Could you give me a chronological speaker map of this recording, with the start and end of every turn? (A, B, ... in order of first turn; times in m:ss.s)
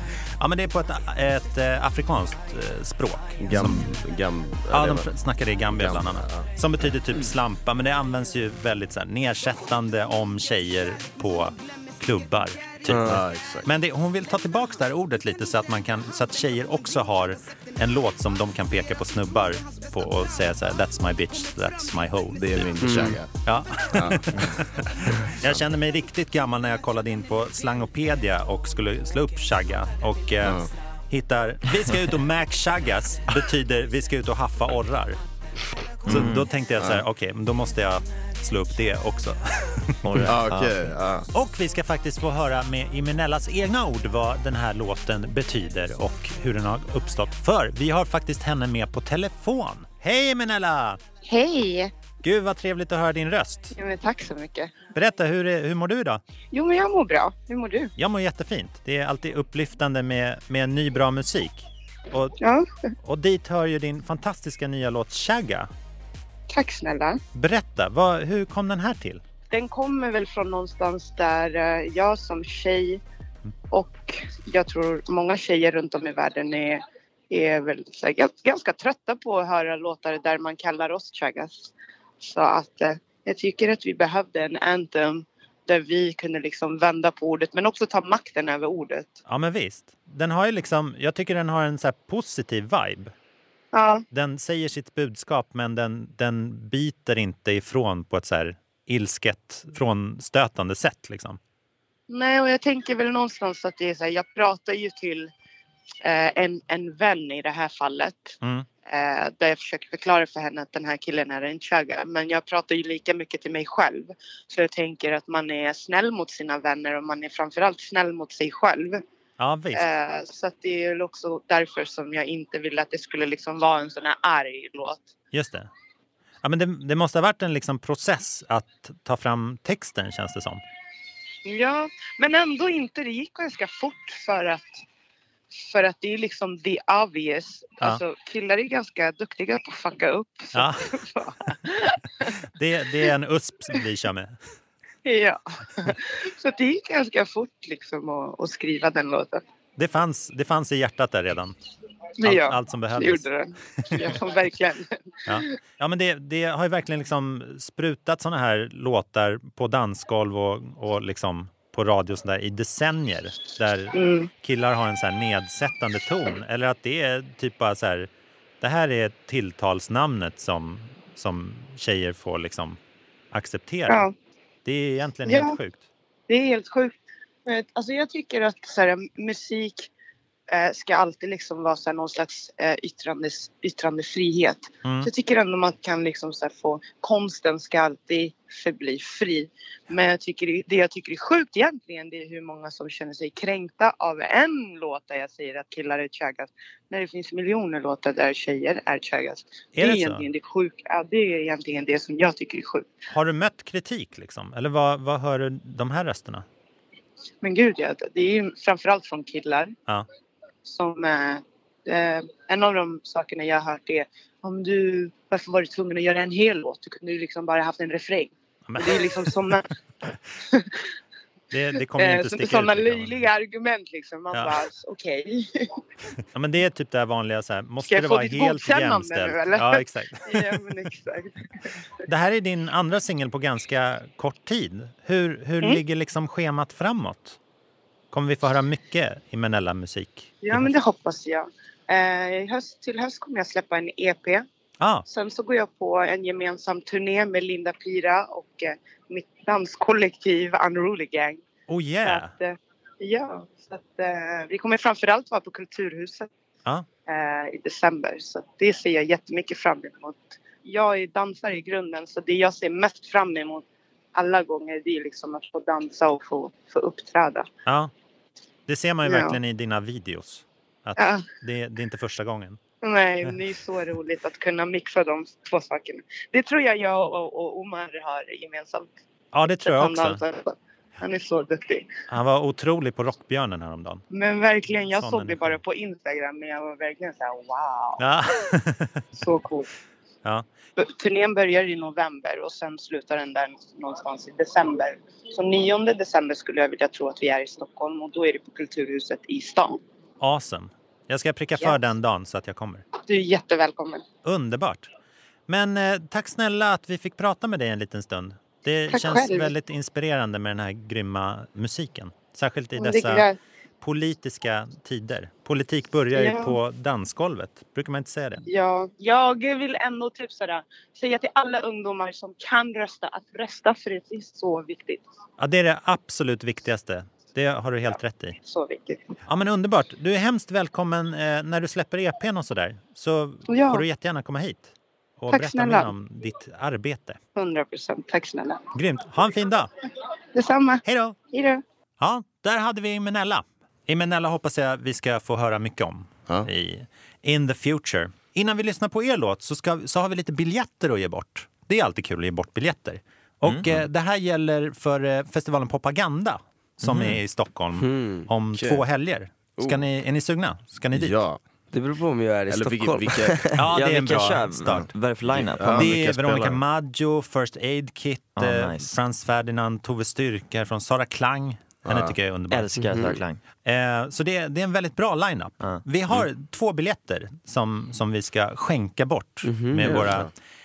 0:00.4-0:04.0 A
0:03.4-0:05.1 B
0:04.7-0:35.2 A
0:05.7-0:06.5 B
0:12.9-0:13.2 C
0:13.0-0:13.7 B
0:22.3-0:23.3 B
0:22.8-0:23.2 C
0:23.9-0:25.6 B
0:30.4-0:30.7 B
0:36.1-0:36.5 D
0:36.1-0:40.4 A
0:36.8-0:37.0 B
0:40.0-0:41.0 D
0:40.3-0:41.3 B
0:41.3-0:51.0 A
0:51.2-0:51.9 E
0:52.2-0:53.8 A
0:53.8-0:54.7 E
0:54.9-0:56.2 A
0:56.5-0:57.9 E
0:58.0-1:02.4 A
1:02.4-1:02.7 E
1:03.0-1:05.7 A
1:06.5-1:07.2 E
1:07.4-1:09.2 A
1:09.5-1:13.0 E
1:13.7-1:29.2 E
1:29.3-1:33.1 A
1:33.7-1:34.0 E
1:34.1-1:41.4 A
1:42.1-1:45.3 E
1:46.0-1:59.0 E
1:48.4-1:48.7 A
1:59.4-1:59.9 A
1:59.7-2:05.1 E
2:05.3-2:05.7 A
2:06.4-2:10.6 A
2:11.5-2:14.8 E
2:15.5-2:22.3 E
2:20.5-2:20.9 A
2:22.6-2:24.4 A
2:25.0-2:29.4 E
2:29.8-2:31.6 A
2:32.2-2:34.9 E
2:32.2-2:33.3 A
2:35.3-2:48.1 A
2:43.9-2:44.3 E
2:48.6-2:52.8 A
2:53.3-2:54.0 A
2:54.6-2:55.8 A
2:55.2-2:55.6 E
2:56.3-2:56.9 E
2:57.5-2:59.9 E
3:00.5-3:22.9 E
3:04.8-3:05.1 A
3:19.8-3:20.2 A
3:23.1-3:26.5 A
3:27.4-3:29.8 E
3:30.6-3:39.7 E
3:38.7-3:39.3 A
3:40.5-3:40.8 E
3:41.5-3:43.2 A
3:42.0-3:45.8 E
3:46.4-3:50.6 A
3:47.9-3:51.3 E
3:52.1-3:57.4 A
3:58.1-4:00.7 A
4:00.4-4:04.4 E
4:04.8-4:05.1 A
4:05.1-4:11.4 E
4:11.7-4:12.3 A
4:12.0-4:16.3 E
4:17.1-4:27.5 E
4:27.7-4:27.9 A
4:28.7-4:32.6 A
4:29.0-4:29.4 E
4:31.0-4:31.2 E
4:32.8-4:38.9 E
4:39.3-4:40.2 A
4:39.6-4:41.9 E
4:42.1-4:44.0 A
4:44.1-4:48.0 E
4:44.9-4:45.6 A
4:48.0-4:49.0 A
4:49.2-4:49.7 E
4:50.8-4:59.8 E
5:00.2-5:02.8 A
5:03.0-5:04.0 E
5:04.2-5:04.9 A
5:05.5-5:13.3 A
5:08.9-5:09.5 E
5:12.8-5:13.4 E
5:13.8-5:18.5 A
5:16.2-5:16.6 E
5:18.5-5:25.0 E
5:25.4-5:28.4 A
5:28.4-5:29.1 E
5:29.3-5:37.2 A
5:33.5-5:33.8 E
5:35.3-5:35.9 E
5:37.4-5:38.6 E
5:38.7-5:39.7 A
5:40.4-5:41.6 E
5:40.8-5:41.2 A
5:42.0-6:01.2 A
5:53.4-5:53.8 D
5:56.8-5:57.2 D
5:57.8-5:58.3 C
5:58.6-5:58.8 B
5:59.6-5:59.8 B
6:00.9-6:01.4 B
6:01.7-6:03.6 C
6:02.5-6:03.6 B
6:03.6-6:04.9 A
6:03.7-6:06.0 D
6:04.7-6:06.6 B
6:05.7-6:12.9 A
6:08.4-6:08.9 D
6:11.8-6:12.2 B
6:12.5-6:13.4 D
6:12.8-6:13.2 C
6:13.6-6:20.3 A
6:19.4-6:20.1 C
6:19.8-6:20.3 B